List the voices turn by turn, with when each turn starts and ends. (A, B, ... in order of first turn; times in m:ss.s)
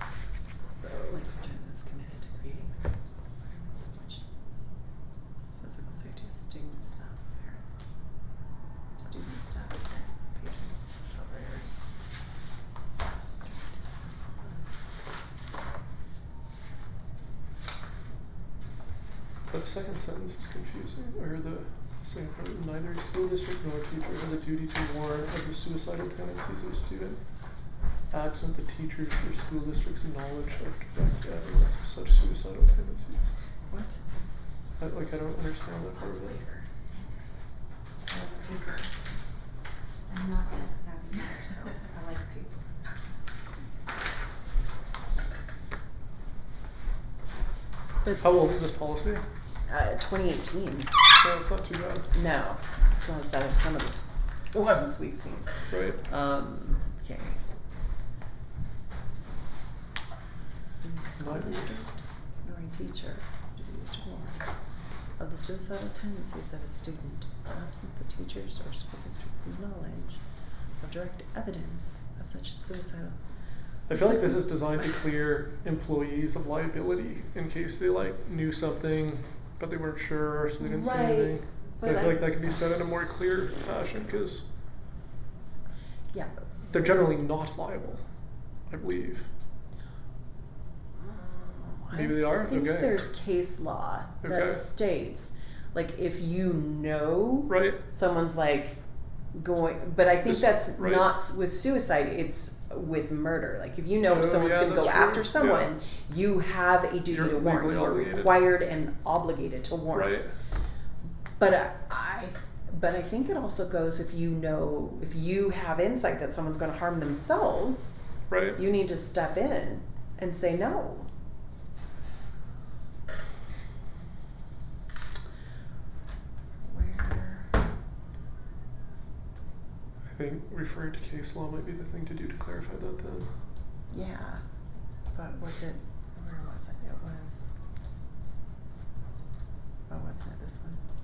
0:00.4-0:04.2 A
0:05.4-0:07.8 A
0:09.0-0:11.7 A
0:13.2-0:14.7 A
0:19.5-0:33.3 B
0:33.7-0:34.0 A
0:34.8-0:36.6 B
0:38.1-0:38.9 C
0:40.1-0:42.9 C
0:48.0-0:48.5 A
0:48.2-0:49.2 B
0:49.7-0:50.9 A
0:51.1-0:52.1 B
0:52.1-0:57.4 A
0:55.7-0:56.0 B
1:00.8-1:04.5 A
1:01.2-1:01.8 B
1:05.2-1:10.2 A
1:10.8-1:13.2 A
1:13.9-1:24.4 B
1:13.9-1:14.4 A
1:20.6-1:22.2 A
1:26.1-1:26.8 A
1:26.7-1:28.0 B
1:28.7-1:29.3 B
1:31.0-1:38.8 A
1:31.9-1:33.0 B
1:34.2-1:34.6 B
1:37.5-1:37.8 B
1:39.3-1:50.1 A
1:40.2-1:41.1 B
1:44.0-1:45.7 B
1:47.1-1:48.4 B
1:49.9-1:50.3 B
1:51.4-1:57.9 A
1:58.3-1:58.6 B
1:58.6-2:01.1 A
2:06.6-2:07.5 A
2:10.1-2:13.3 B
2:13.9-2:14.4 A
2:15.1-2:17.5 A
2:19.9-2:20.8 A